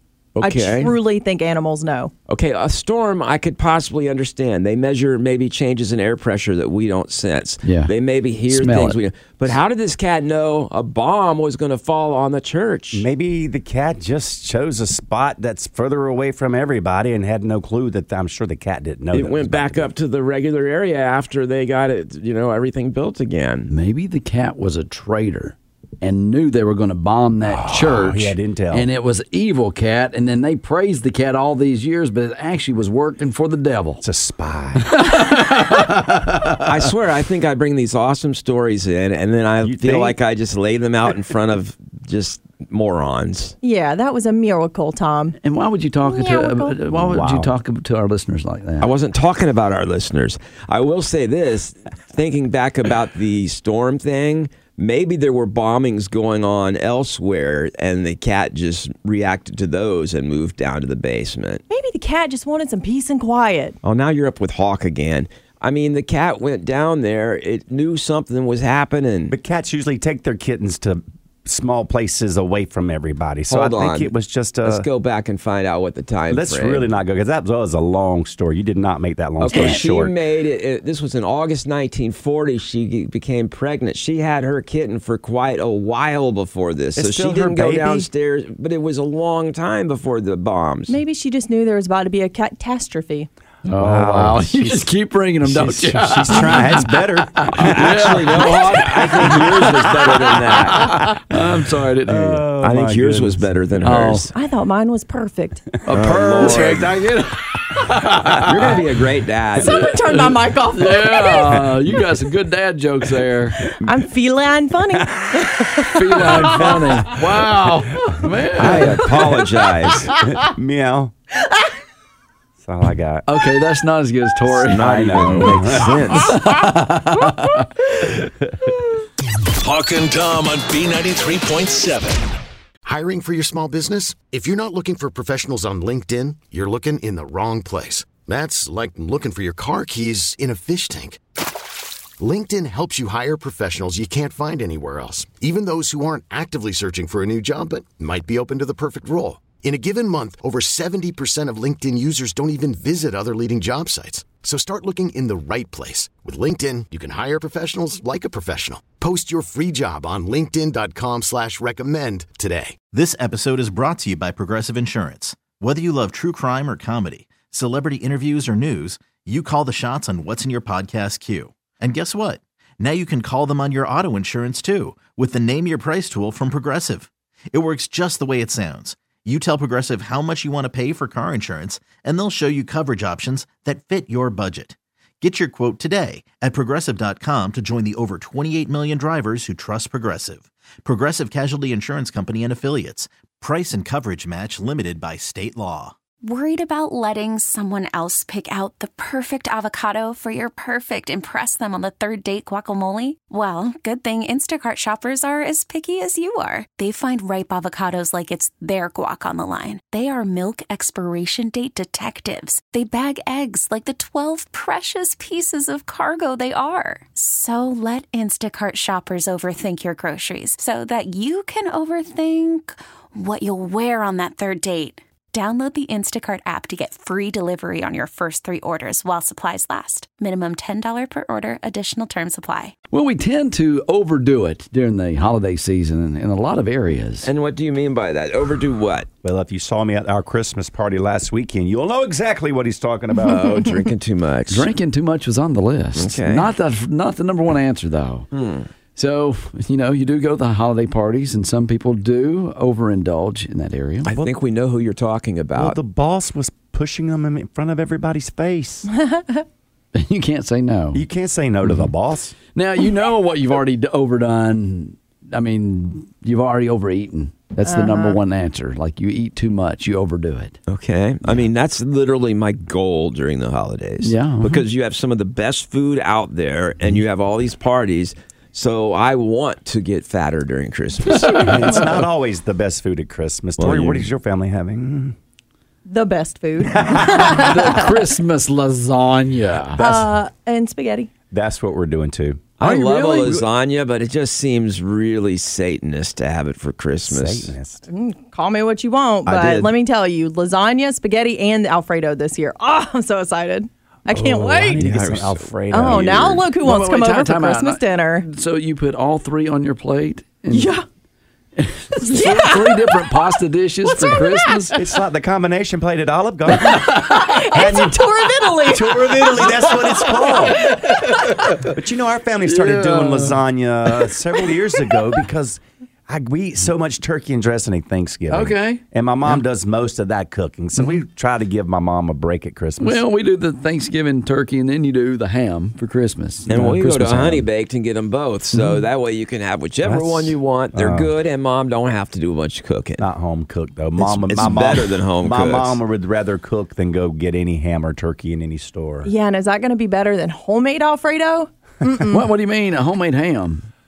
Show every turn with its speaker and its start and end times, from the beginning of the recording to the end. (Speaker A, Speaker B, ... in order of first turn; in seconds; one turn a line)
Speaker A: 0.3-0.9
Speaker B: 0.4-2.1
Speaker A: 2.3-13.1
Speaker C: 7.6-7.9
Speaker C: 8.5-9.0
Speaker D: 12.9-19.9
Speaker A: 19.1-23.7
Speaker C: 23.7-34.0
Speaker D: 27.4-28.9
Speaker D: 34.0-35.0
Speaker C: 34.9-36.1
Speaker D: 36.0-36.5
Speaker A: 36.6-43.5
Speaker D: 39.6-40.2
Speaker B: 43.6-45.4
Speaker C: 45.4-48.9
Speaker B: 46.0-46.8
Speaker D: 46.9-47.5
Speaker A: 48.8-61.6
Speaker B: 61.7-63.8
Speaker A: 63.8-69.3
Speaker D: 69.3-74.9
Speaker A: 73.5-74.1
Speaker A: 74.6-76.9
Speaker D: 76.3-80.1
Speaker A: 79.4-91.0
Speaker D: 87.0-88.1
Speaker B: 90.9-93.3
Speaker C: 93.7-99.9
Speaker D: 93.8-94.9
Speaker D: 95.4-98.2
Speaker A: 97.6-101.0
Speaker C: 100.5-102.5
Speaker D: 102.0-103.6
Speaker A: 102.6-104.3
Speaker C: 103.8-104.3
Speaker B: 104.3-105.7
Speaker C: 105.8-108.8
Speaker A: 105.9-106.9
Speaker A: 108.4-110.2
Speaker B: 109.6-111.7
Speaker C: 109.8-113.6
Speaker B: 113.8-116.7
Speaker C: 115.8-119.0
Speaker D: 118.5-121.1
Speaker A: 118.6-120.1
Speaker D: 122.6-123.2
Speaker C: 123.3-125.5
Speaker A: 124.5-126.4
Speaker D: 124.6-126.3
Speaker C: 126.2-127.7
Speaker E: 129.6-132.3
Speaker F: 132.8-141.2
Speaker F: 142.2-162.8
Speaker G: 162.9-195.9
Speaker H: 196.2-232.7
Speaker C: 232.9-237.3
Speaker A: 237.2-239.1
Speaker D: 239.2-243.7
Speaker A: 243.2-244.7
Speaker C: 244.5-248.3
Speaker A: 245.9-246.5
Speaker A: 248.3-248.7
Speaker C: 248.9-254.1
Speaker A: 254.0-255.8
Speaker D: 255.5-258.9
Speaker B: 258.9-259.4
Speaker C: 259.9-261.0
Speaker D: 260.9-262.4
Speaker C: 262.5-270.6
Speaker B: 267.6-268.2
Speaker A: 270.7-281.8
Speaker C: 274.0-274.6
Speaker D: 281.3-285.1
Speaker A: 283.6-284.1
Speaker B: 285.9-287.9
Speaker D: 286.6-287.4
Speaker C: 287.3-289.8
Speaker B: 289.8-291.1
Speaker D: 291.3-292.5
Speaker A: 292.6-297.5
Speaker C: 292.6-293.4
Speaker D: 297.1-297.9
Speaker B: 297.9-304.8
Speaker A: 299.2-299.7
Speaker D: 304.1-306.4
Speaker A: 304.8-306.4
Speaker B: 305.7-308.2
Speaker C: 306.6-310.7
Speaker B: 310.5-310.8
Speaker C: 311.6-314.8
Speaker B: 312.0-313.1
Speaker B: 313.9-314.8
Speaker D: 314.7-320.8
Speaker B: 317.0-320.9
Speaker C: 320.6-321.4
Speaker D: 321.5-333.0
Speaker C: 322.4-323.4
Speaker C: 328.3-328.8
Speaker C: 332.8-337.5
Speaker A: 336.5-343.0
Speaker C: 338.5-338.8
Speaker D: 339.8-341.1
Speaker D: 343.0-349.1
Speaker A: 344.0-345.8
Speaker B: 349.0-352.3
Speaker C: 352.1-353.7